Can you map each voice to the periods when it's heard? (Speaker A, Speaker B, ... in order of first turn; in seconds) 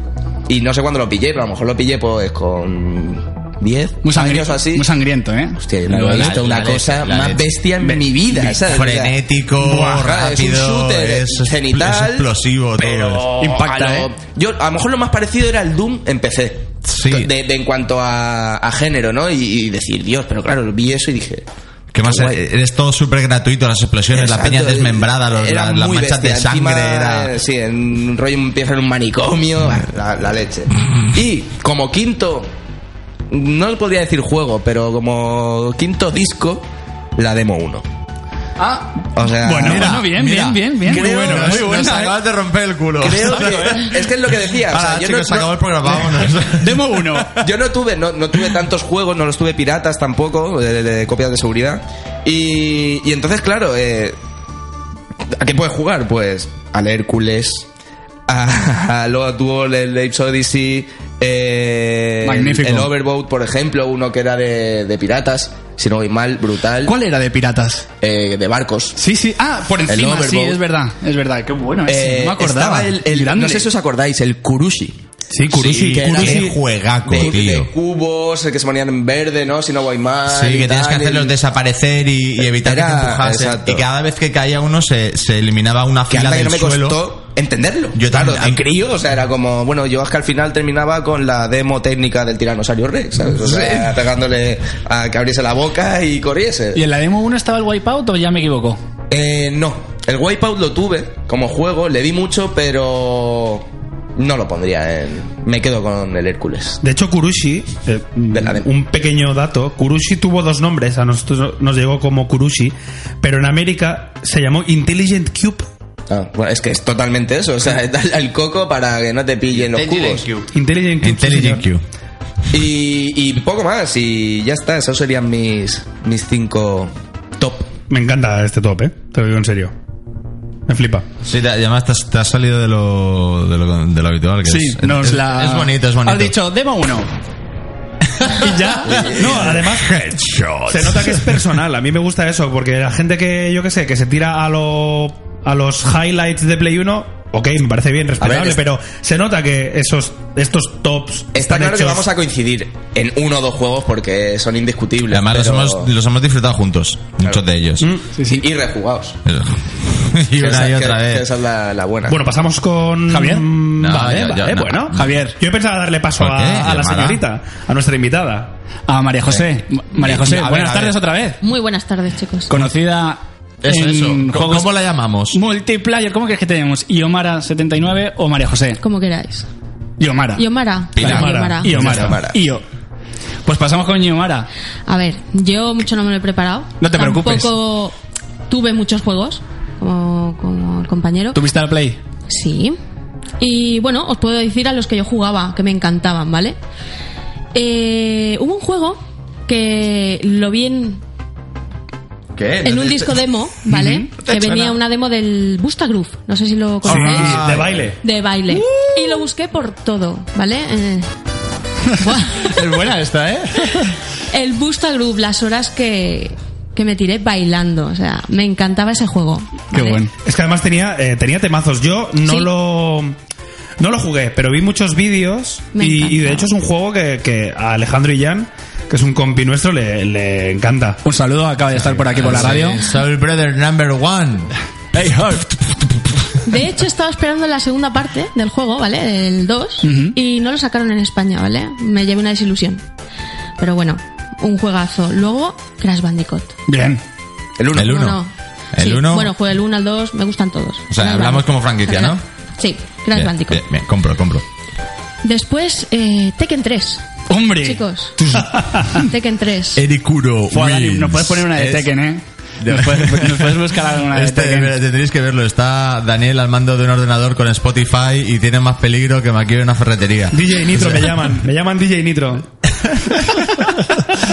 Speaker A: 0.5-4.9, 5.6-12.3, 12.8-21.5, 22.0-22.4, 24.1-32.5, 33.3-36.6, 37.2-37.8, 39.1-39.9, 40.9-41.7, 43.0-45.5, 47.4-54.2, 55.3-57.7, 58.3-67.0, 68.0-69.0, 69.9-70.6, 71.9-75.0, 75.5-81.3, 82.4-83.8, 86.1-96.8, 99.1-103.7, 104.2-106.8, 108.3-108.7, 116.1-120.2, 122.5-127.7, 138.9-139.5, 148.2-148.6, 151.3-155.9, 158.2-159.2, 160.3-162.2, 181.7-182.4, 247.6-247.9
Speaker B: 4.0-6.4, 13.4-14.1, 38.6-42.2, 43.2-43.9, 46.5-47.3, 62.2-62.9, 66.8-67.9, 69.0-73.7, 96.8-98.8, 134.5-137.1, 158.2-158.4, 163.1-163.5, 164.9-165.4, 168.9-171.4, 172.5-174.7, 175.3-178.8, 180.0-180.5, 181.0-182.6, 183.4-184.5, 186.8-187.5, 191.3-192.0, 203.7-204.1, 208.5-209.2, 212.0-214.0, 219.7-220.1, 231.1-232.8, 234.9-235.5, 239.8-240.2, 246.7-247.0, 257.3-259.0, 260.5-264.8
Speaker C: 6.0-7.5, 8.3-13.3, 16.9-17.3, 21.9-27.4, 39.6-47.5, 75.7-77.7, 80.3-87.0, 88.0-88.6, 93.4-93.9, 119.5-120.5, 121.0-121.8, 131.2-136.3, 138.2-141.4, 155.1-157.9, 159.2-161.3, 163.8-165.2, 166.2-167.2, 170.0-171.0, 173.6-175.4, 181.0-181.3, 202.4-203.2, 204.3-204.8, 206.8-207.9, 232.1-235.3, 247.7-248.2, 248.7-249.3, 250.9-252.2, 253.1-254.4, 259.8-261.9, 262.6-271.1
Speaker D: 75.3-76.6, 106.8-115.7, 120.5-121.7, 127.9-129.7, 130.7-131.1, 138.3-140.0, 140.7-152.1, 157.8-158.1, 162.1-168.5, 181.0-182.2, 206.9-208.0, 220.2-223.2, 223.8-231.0, 258.5-258.9, 270.3-272.5
Speaker E: 171.4-172.6, 178.8-179.5, 180.4-181.9, 184.9-187.9, 188.5-191.4, 192.3-192.8, 193.4-196.6, 197.5-201.0, 202.6-207.5, 208.0-211.1, 212.0-212.6, 214.3-220.1, 222.2-222.5, 225.7-226.5, 236.4-242.8, 243.6-246.6, 247.8-253.6, 255.2-257.0, 257.6-259.8